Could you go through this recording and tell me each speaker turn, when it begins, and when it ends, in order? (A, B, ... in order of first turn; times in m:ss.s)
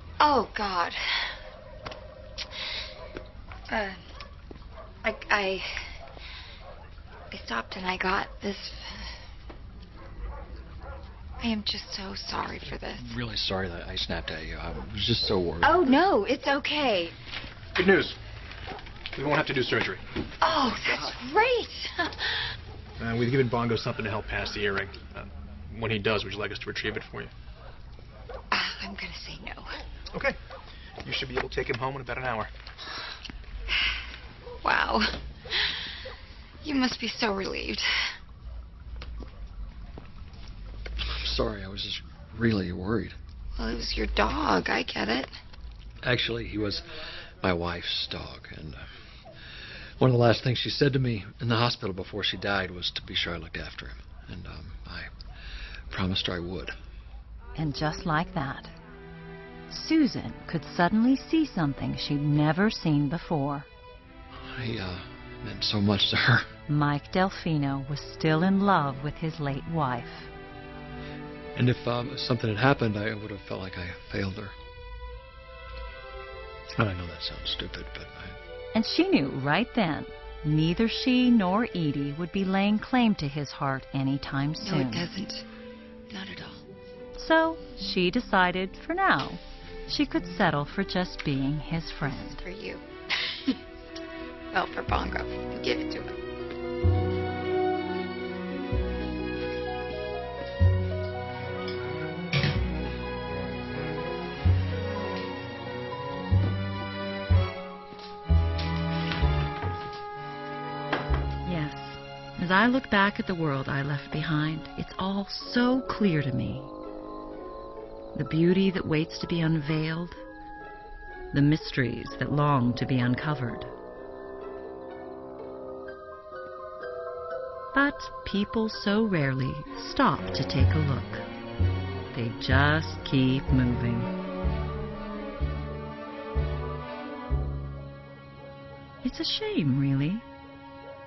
0:00.2-0:01.3 A
0:03.7-0:04.0 A
0:05.0-0:05.9 A
0:07.3-0:09.1 A
0:11.4-0:13.1 A
0:12.9-0:15.9 B
0:15.6-0:17.2 A
0:17.8-0:18.2 C
0:19.2-0:20.0 C
0:20.4-0:22.5 A
0:20.7-0:21.0 C
0:23.0-0:27.3 C
0:28.5-0:29.8 A
0:31.0-0:32.5 C
0:34.6-0:35.7 A
0:36.6-0:38.1 A
0:41.2-0:43.2 B
0:43.6-0:45.3 A
0:46.0-0:46.8 B
0:47.4-0:48.8 B
0:50.0-0:55.1 B
0:55.9-0:56.7 B
0:57.6-0:58.7 D
0:59.7-1:03.7 D
1:04.4-1:06.5 B
1:06.7-1:10.3 D
1:11.6-1:14.5 B
1:16.8-1:18.4 B
1:18.7-1:25.1 D
1:24.6-1:25.4 A
1:26.1-1:26.6 A
1:27.2-1:32.4 D
1:32.1-1:33.6 A
1:34.5-1:36.2 A
1:51.4-1:56.7 D
1:58.1-2:00.2 D
2:01.3-2:03.7 D
2:07.7-2:11.2 D
2:12.1-2:14.1 D
2:19.0-2:20.2 D